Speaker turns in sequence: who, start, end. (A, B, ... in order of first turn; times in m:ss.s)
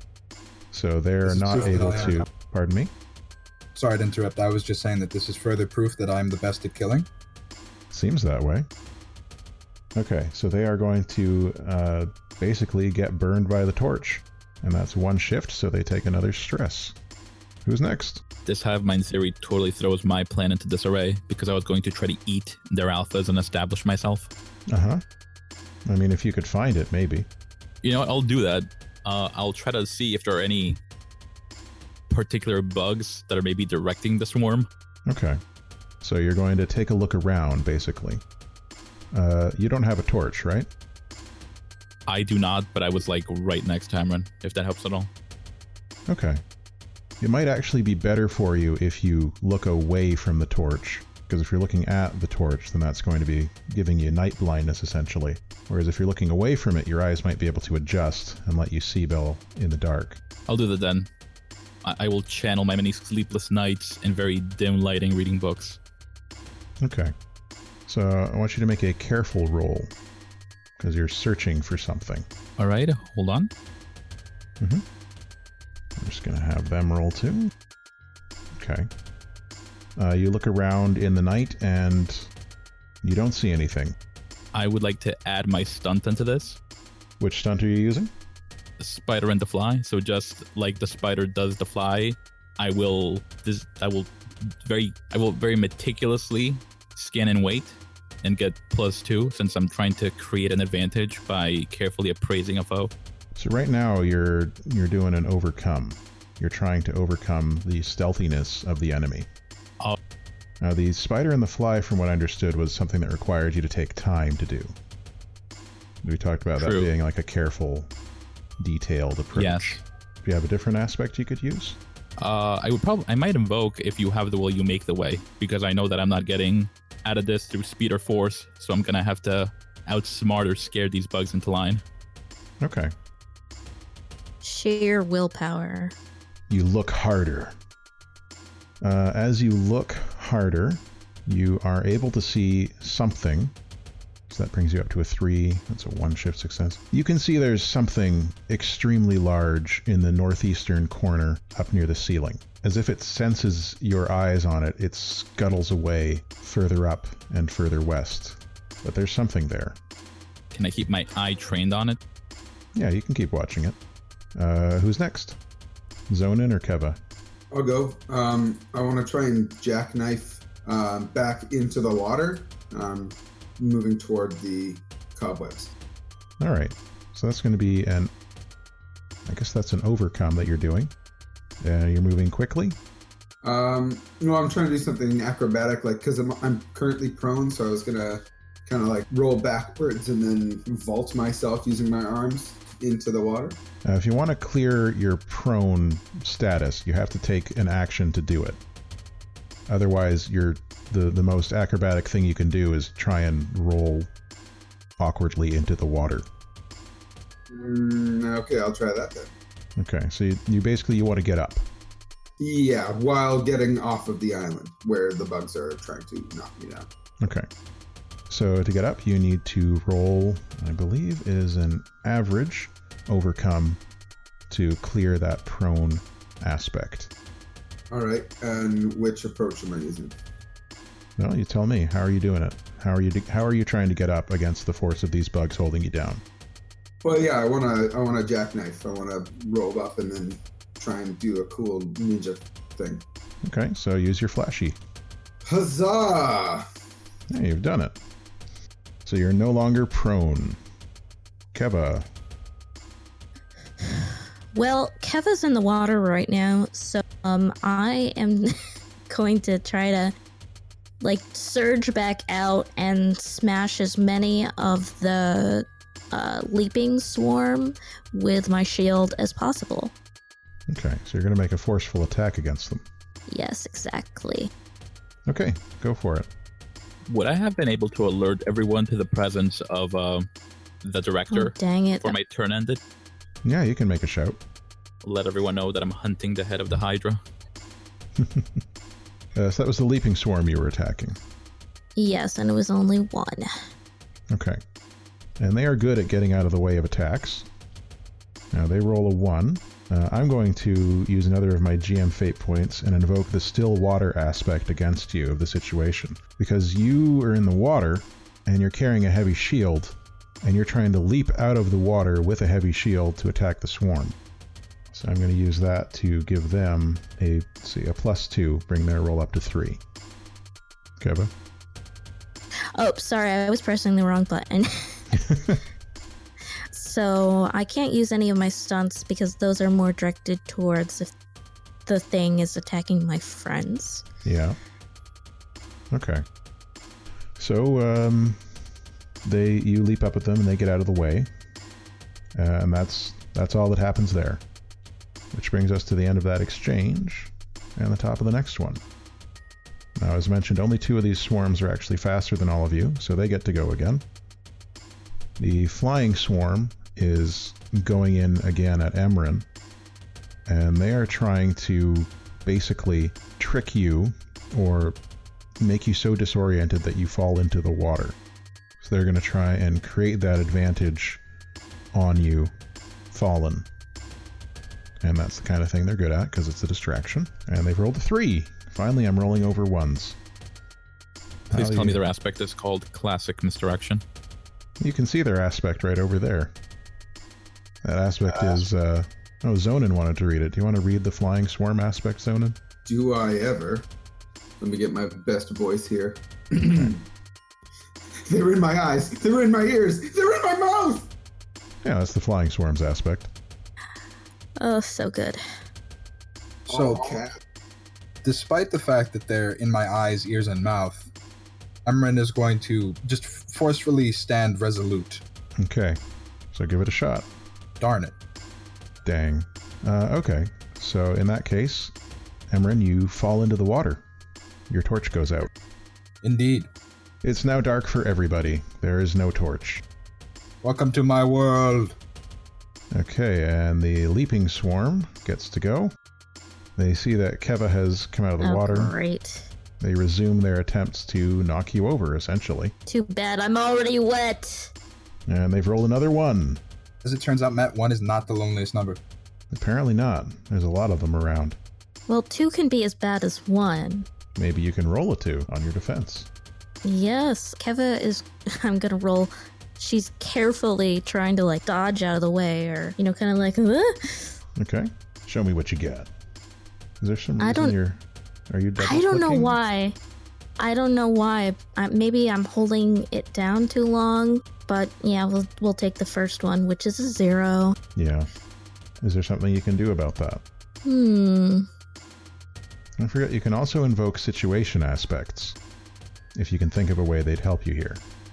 0:00.7-0:02.9 A
0:01.2-0:02.2 B
0:03.7-0:07.1 B
0:07.9-0:08.7 A
0:09.9-0:17.0 A
0:17.6-0:18.2 A
0:18.4-0:24.3 C
0:24.7-0:25.0 A
0:25.9-0:27.3 A
0:27.8-0:30.8 C
0:32.1-0:34.7 C
0:35.1-0:35.4 A
0:36.0-0:38.2 A
0:39.1-0:40.7 A
0:42.1-0:45.1 C
0:46.1-0:46.4 A
0:47.2-1:00.2 A
1:00.5-1:01.1 C
1:01.8-1:05.8 C
1:06.8-1:07.1 A
1:07.9-1:09.9 A
1:10.8-1:12.2 A
1:12.6-1:13.5 C
1:14.6-1:14.8 A
1:16.0-1:17.5 A
1:18.6-1:18.9 A
1:20.0-1:22.3 A
1:23.0-1:24.0 A
1:24.5-1:26.6 C
1:27.2-1:28.1 A
1:28.8-1:34.1 C
1:34.6-1:42.9 C
1:43.3-1:49.3 A
1:50.6-1:54.8 A
1:56.0-1:57.9 A
1:56.6-1:56.9 C
1:58.6-2:01.8 A
1:59.3-1:59.8 C
2:02.2-2:11.8 C
2:12.6-2:12.9 A
2:14.4-2:16.0 D
2:16.5-2:17.6 A
2:18.8-2:23.5 A
2:24.3-2:39.8 A
2:40.5-2:42.0 C
2:42.7-2:43.8 A
2:44.4-2:45.4 A
2:46.1-2:47.0 A
2:47.5-2:55.7 E
2:56.4-2:58.1 A
2:59.3-3:00.9 A
3:01.6-3:02.8 A
3:03.4-3:13.6 E
3:13.8-3:18.6 A
3:19.7-3:24.1 A
3:25.0-3:26.3 A
3:27.5-3:29.3 E
3:29.8-3:31.6 A
3:32.4-3:36.9 E
3:37.2-3:37.5 A
3:38.3-3:43.8 A
3:44.5-3:47.1 A
3:47.9-3:50.2 E
3:51.2-3:56.2 A
3:57.0-4:03.0 E
4:03.4-4:04.8 A
4:05.4-4:06.6 E
4:07.3-4:08.0 A
4:09.0-4:10.6 A
4:11.5-4:12.1 A
4:13.8-4:18.5 D
4:19.1-4:20.1 D
4:21.0-4:29.9 D
4:30.7-4:32.8 A
4:33.3-4:34.5 D
4:35.3-4:36.3 A
4:37.1-4:40.3 C
4:40.8-4:42.8 C
4:41.3-4:42.2 D
4:43.4-4:44.4 A
4:45.0-4:47.2 C
4:48.2-4:48.6 A
4:49.3-4:51.2 A
4:52.0-4:53.5 D
4:54.3-4:54.6 A
4:55.4-4:57.5 A
4:58.5-5:14.2 A
5:14.9-5:19.8 A
5:21.0-5:21.3 A
5:22.8-5:25.2 D
5:25.1-5:25.6 A
5:26.7-5:31.1 D
5:31.8-5:34.0 D
5:34.2-5:34.6 A
5:35.9-5:36.2 A
5:37.4-5:38.5 A
5:39.2-5:41.3 A
5:42.3-5:44.4 A
5:45.3-5:48.8 A
5:50.0-5:54.0 A
5:55.4-5:59.4 A
6:00.5-6:05.0 A
6:05.6-6:08.2 A
6:08.8-6:11.2 A
6:11.9-6:12.5 A
6:13.1-6:13.7 A
6:15.0-6:20.2 A
6:21.5-6:22.0 A
6:21.5-6:24.0 C
6:24.8-6:26.5 A
6:27.8-6:32.6 A
6:32.8-6:33.9 E
6:34.6-6:37.0 E
6:38.3-6:41.1 E
6:41.8-6:43.3 A
6:44.6-6:45.4 D
6:46.7-6:47.2 B
6:46.7-6:47.4 E
6:48.2-6:51.1 B
6:51.8-6:55.2 B
6:55.6-6:56.0 A
6:56.5-6:57.3 A
6:57.8-6:58.1 B
6:59.0-7:01.9 A
7:02.5-7:04.0 A
7:04.7-7:05.5 A
7:06.2-7:06.7 B
7:07.2-7:09.8 A
7:10.6-7:12.0 B
7:12.9-7:15.9 A
7:16.8-7:18.9 A
7:18.4-7:19.5 D
7:19.8-7:22.7 A
7:22.9-7:24.7 D
7:25.3-7:26.6 A
7:27.0-7:29.0 B
7:29.5-7:31.6 A
7:32.1-7:34.1 D
7:34.4-7:36.3 A
7:36.8-7:44.3 D
7:44.6-7:46.1 A
7:47.0-7:49.6 A
7:47.4-7:47.8 D
7:48.8-7:50.0 D
7:50.6-7:57.8 D
7:57.9-7:58.3 A
7:59.0-8:00.4 A
8:00.8-8:01.7 D
8:03.0-8:05.6 A
8:06.3-8:08.0 A